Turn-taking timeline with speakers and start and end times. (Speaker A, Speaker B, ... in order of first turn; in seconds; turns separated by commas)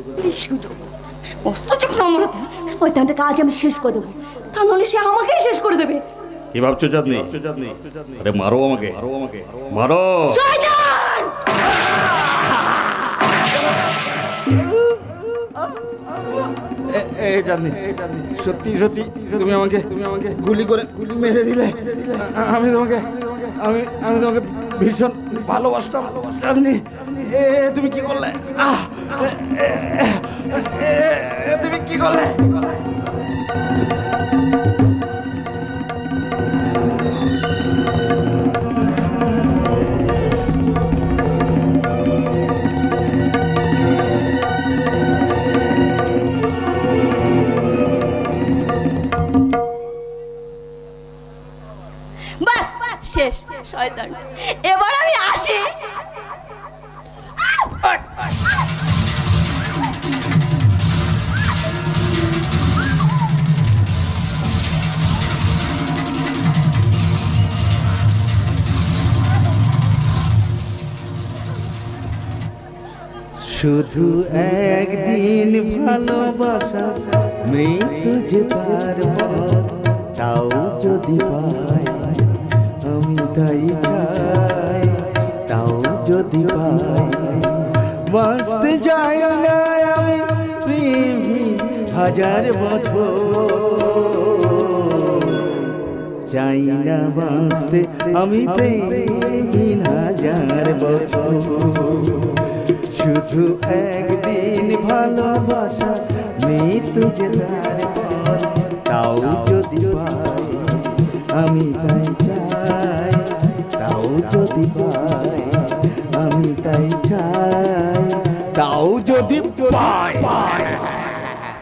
Speaker A: 0.2-6.0, Speaker B: 6.5-10.4, Speaker C: 7.0-9.4, Speaker A: 10.3-11.4, Speaker B: 16.8-32.6, Speaker A: 52.4-56.0, Speaker C: 73.4-95.7, Speaker C: 96.2-120.8